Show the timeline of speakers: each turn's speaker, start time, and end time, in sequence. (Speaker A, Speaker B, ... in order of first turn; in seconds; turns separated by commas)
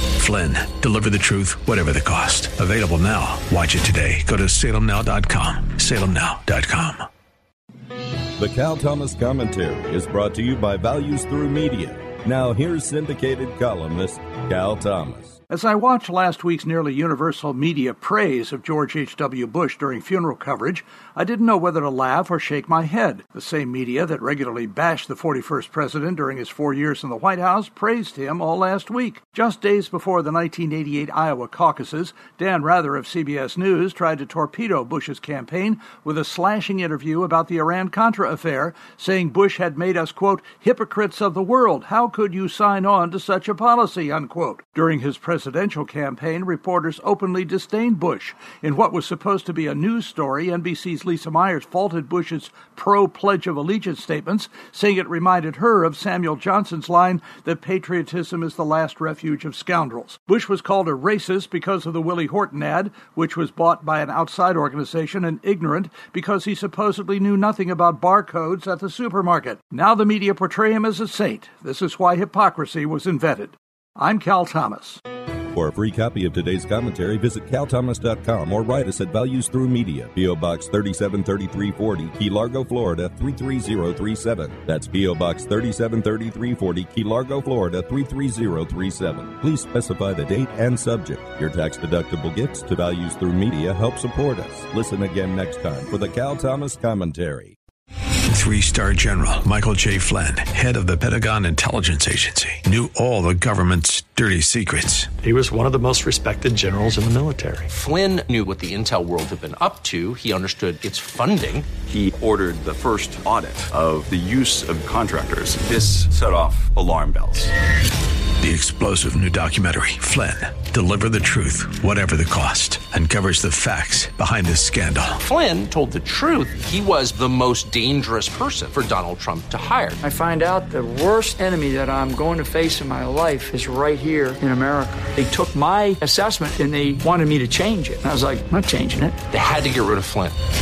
Speaker A: 0.2-7.0, Speaker B: 8.4-15.4, Speaker C: 15.5-75.0, Speaker B: 75.5-97.5, Speaker A: 98.3-105.1, Speaker D: 105.2-107.7, Speaker E: 107.7-111.7, Speaker F: 111.9-117.5, Speaker A: 118.4-125.2, Speaker E: 125.2-130.0, Speaker G: 130.0-139.2, Speaker E: 139.3-140.3